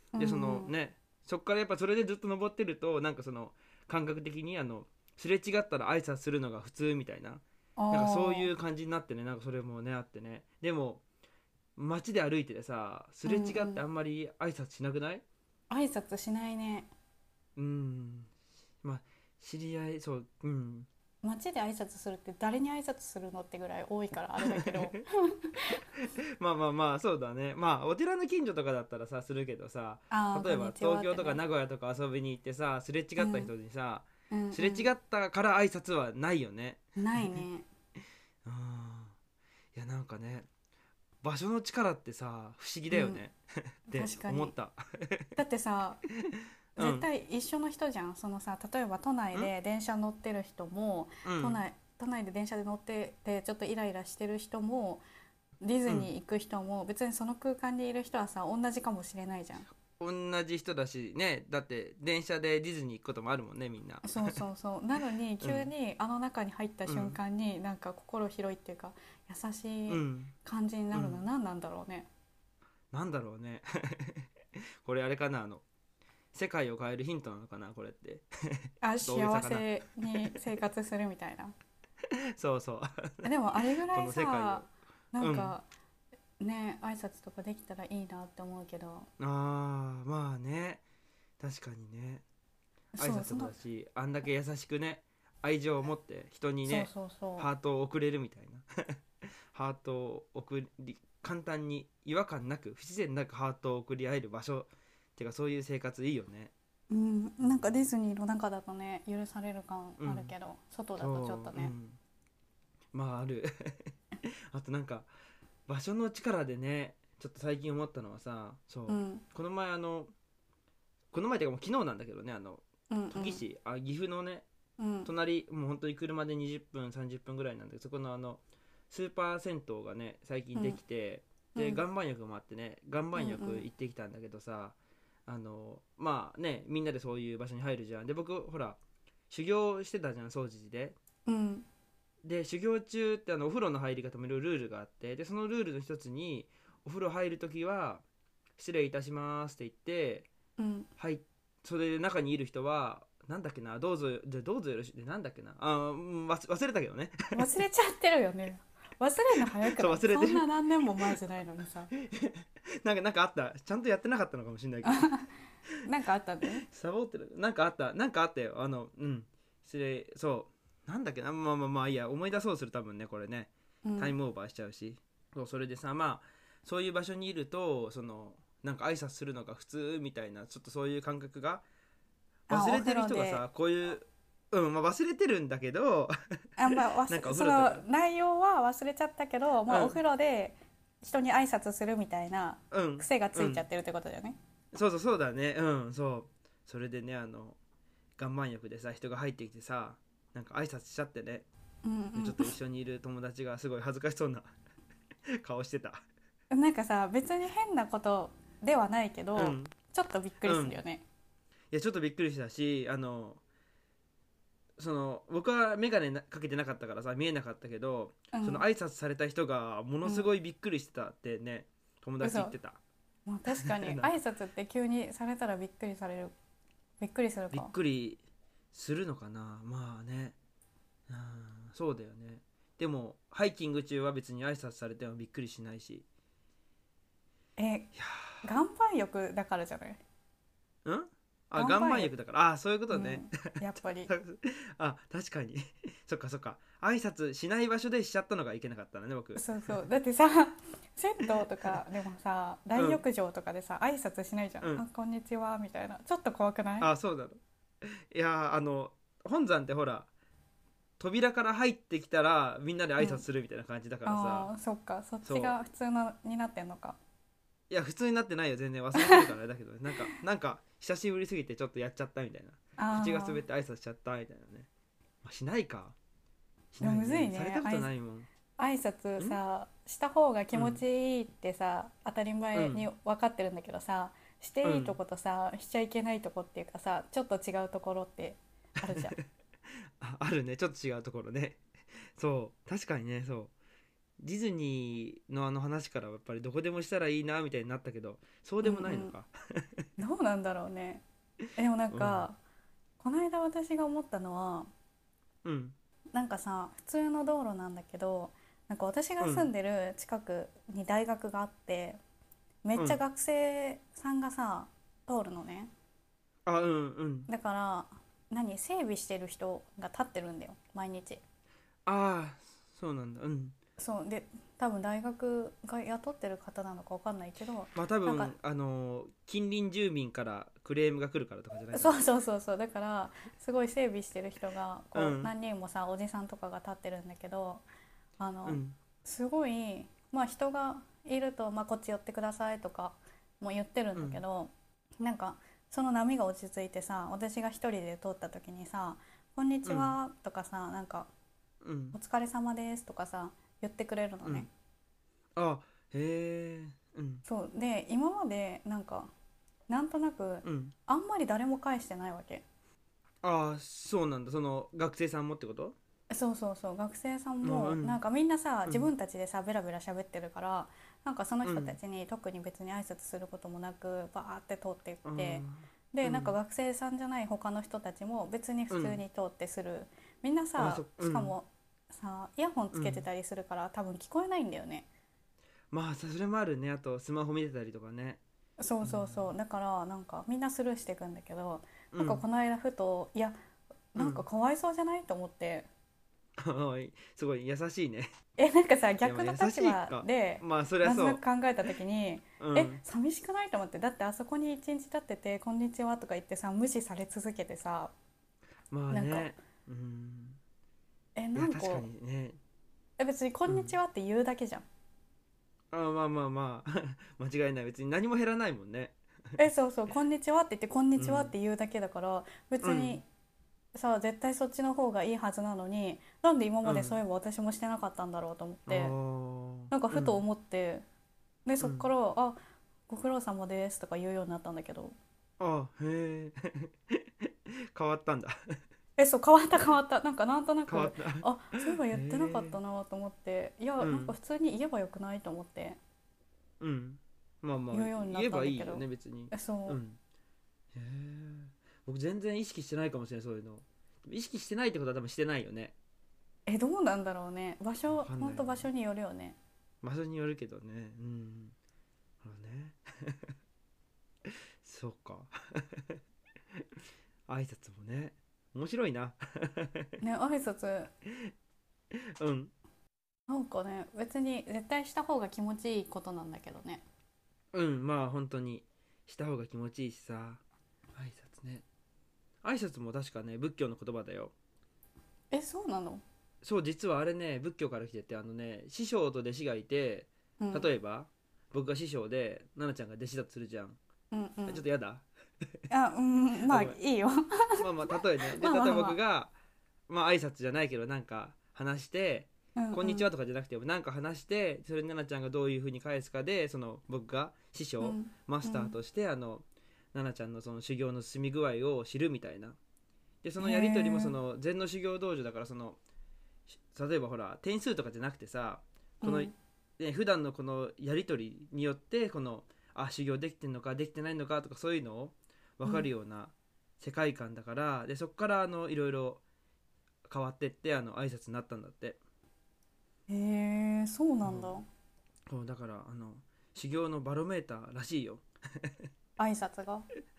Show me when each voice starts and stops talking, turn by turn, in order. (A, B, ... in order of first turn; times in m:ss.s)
0:00.1-0:00.7 A
0:00.2-0:11.0 B
0:07.8-0:08.5 A
0:11.8-0:15.2 B
0:13.2-0:13.8 A
0:15.7-0:16.9 A
0:17.6-0:18.3 B
0:18.8-0:20.9 B
0:21.2-0:25.8 A
0:24.4-0:25.0 B
0:25.8-0:37.4 B
0:30.1-0:31.4 A
0:33.2-0:33.5 A
0:34.3-0:34.9 A
0:37.0-0:37.7 A
0:38.4-0:39.1 B
0:39.8-0:40.5 B
0:41.2-0:45.4 B
0:42.9-0:43.2 A
0:43.9-0:44.6 A
0:45.4-0:46.0 A
0:46.3-0:47.1 B
0:46.8-0:55.0 A
0:51.2-0:51.6 B
0:55.6-0:59.7 A
0:59.8-1:04.4 B
1:04.0-1:12.1 A
1:05.4-1:05.7 B
1:06.9-1:07.2 B
1:09.9-1:10.3 B
1:10.9-1:11.2 B
1:12.9-1:14.3 B
1:14.8-1:15.6 B
1:16.3-1:20.3 B
1:18.8-1:21.6 A
1:22.4-1:23.3 B
1:23.2-1:25.7 A
1:23.8-1:25.6 B
1:26.4-1:29.1 A
1:29.2-1:30.8 B
1:31.4-1:32.2 B
1:32.9-1:33.5 A
1:33.0-1:38.7 B
1:36.6-1:37.5 A
1:39.5-1:46.5 B
1:46.9-1:51.7 A
1:47.4-1:47.8 B
1:50.0-1:50.3 B
1:51.0-1:52.0 B
1:52.9-1:53.9 B
1:54.5-1:55.1 B
1:55.7-2:00.1 B
1:58.9-1:59.2 A
2:01.1-2:04.5 B
2:02.9-2:03.4 A
2:04.8-2:05.1 A
2:05.0-2:14.8 B
2:11.6-2:11.8 A
2:13.2-2:13.6 A
2:15.3-2:18.8 B
2:19.3-2:21.0 B
2:21.3-2:21.7 A
2:22.2-2:28.0 B
2:28.6-2:30.3 B
2:30.6-2:30.9 A
2:31.0-2:37.5 B
2:37.3-2:41.9 A
2:39.6-2:40.4 B
2:42.0-2:45.1 B
2:44.8-2:45.3 A
2:45.8-2:46.7 A
2:46.7-3:01.6 B
2:53.8-2:54.1 A
3:02.5-3:06.1 B
3:02.5-3:03.4 A
3:06.6-3:14.4 A
3:06.7-3:07.8 B
3:09.7-3:10.0 B
3:12.7-3:13.6 B
3:14.7-3:17.6 B
3:18.2-3:21.5 B
3:21.8-3:22.5 A
3:22.2-3:24.5 B
3:25.4-3:26.0 B
3:26.5-3:31.0 A
3:29.4-3:29.7 B
3:30.4-3:30.8 B
3:31.7-3:33.4 B
3:34.8-3:42.8 B
3:38.3-3:38.7 A
3:40.0-3:40.3 A
3:42.2-3:42.6 A
3:43.3-3:46.4 A
3:43.6-3:44.1 B
3:47.0-3:47.7 A
3:47.5-3:48.2 B
3:48.7-3:50.4 B
3:51.1-3:56.0 B
3:57.6-4:00.0 A
3:58.0-3:58.4 B
4:00.8-4:09.8 B
4:01.6-4:02.1 A
4:02.9-4:04.1 A
4:09.4-4:16.9 A
4:12.8-4:13.0 B
4:16.8-4:17.4 B
4:18.1-4:20.1 B
4:21.0-4:24.5 B
4:23.0-4:23.2 A
4:24.1-4:27.0 A
4:25.2-4:25.6 B
4:27.7-4:34.7 B
4:29.0-4:29.3 A
4:32.8-4:33.4 A
4:35.2-4:36.0 B
4:36.7-4:38.3 B
4:36.8-4:37.9 A
4:38.6-4:49.2 A
4:40.5-4:40.8 B
4:42.5-4:42.9 B
4:44.6-4:45.0 B
4:48.9-4:49.2 B
4:50.0-4:51.6 B
4:52.2-4:53.5 B
4:54.2-4:59.8 B
4:58.6-4:59.2 A
5:00.0-5:01.0 A
5:01.6-5:02.4 A
5:01.9-5:02.3 B
5:03.0-5:04.7 A
5:05.4-5:05.8 B
5:06.1-5:12.0 A
5:09.2-5:09.5 B
5:12.6-5:15.7 A
5:12.8-5:13.0 B
5:16.5-5:17.3 B
5:17.3-5:21.2 A
5:21.9-5:23.6 B
5:23.8-5:28.3 A
5:27.8-5:32.0 B
5:31.7-5:37.6 A
5:35.0-5:35.3 B
5:38.2-5:51.1 A
5:38.5-5:38.8 B
5:44.0-5:44.2 B
5:49.6-5:50.0 B
5:51.6-5:52.0 B
5:51.9-5:54.5 A
5:55.4-5:57.2 B
5:57.3-5:59.1 A
5:59.7-6:02.4 A
6:00.4-6:00.8 B
6:03.2-6:05.8 B
6:06.1-6:24.9 A
6:07.4-6:08.0 B
6:11.4-6:11.8 B
6:15.0-6:16.4 B
6:18.7-6:19.0 B
6:20.6-6:21.4 B
6:22.7-6:23.0 B
6:25.7-6:28.2 B
6:28.6-6:33.4 A
6:28.8-6:29.3 B
6:31.9-6:32.2 B
6:33.9-6:35.7 A
6:34.0-6:34.2 B
6:36.4-6:38.1 B
6:38.4-6:47.9 A
6:39.0-6:41.2 B
6:42.4-6:42.8 B
6:48.7-6:50.4 B
6:48.9-6:49.3 A
6:51.2-6:51.9 A
6:51.4-6:52.4 B
6:53.0-6:54.7 A
6:53.5-6:53.8 B
6:55.7-6:59.0 B
6:59.4-7:03.0 A
7:01.0-7:01.3 B
7:02.6-7:03.0 B
7:03.7-7:08.9 A
7:06.6-7:07.0 B
7:08.7-7:10.2 B
7:09.7-7:10.8 A
7:11.5-7:15.0 A
7:11.6-7:11.9 B
7:15.4-7:17.0 B
7:17.7-7:18.4 B
7:19.0-7:25.8 A
7:20.7-7:22.6 B
7:23.8-7:24.2 B
7:26.6-7:30.0 B
7:27.7-7:29.8 A
7:30.7-7:35.8 B
7:36.5-7:39.4 A
7:37.9-7:38.7 B
7:39.8-7:41.5 B
7:42.2-7:43.3 B
7:44.6-7:46.0 B
7:47.3-7:49.9 B
7:50.0-7:50.9 A
7:52.2-7:52.5 B
7:53.3-7:56.8 A
7:57.5-8:00.4 B
8:01.0-8:01.6 B
8:02.4-8:04.3 B
8:05.3-8:06.0 A
8:06.4-8:13.8 B
8:10.4-8:10.7 A
8:14.1-8:14.6 A
8:14.5-8:15.1 B
8:15.7-8:19.0 A
8:16.5-8:16.8 B
8:17.6-8:19.3 B
8:19.9-8:32.6 B
8:22.6-8:23.1 A
8:27.8-8:28.8 A
8:33.2-8:35.8 B
8:33.4-8:34.2 A
8:36.7-8:49.2 B
8:39.0-8:39.4 A
8:50.1-8:52.0 B
8:53.1-8:54.7 A
8:54.2-8:54.6 B
8:55.3-8:58.9 B
8:59.2-8:59.9 A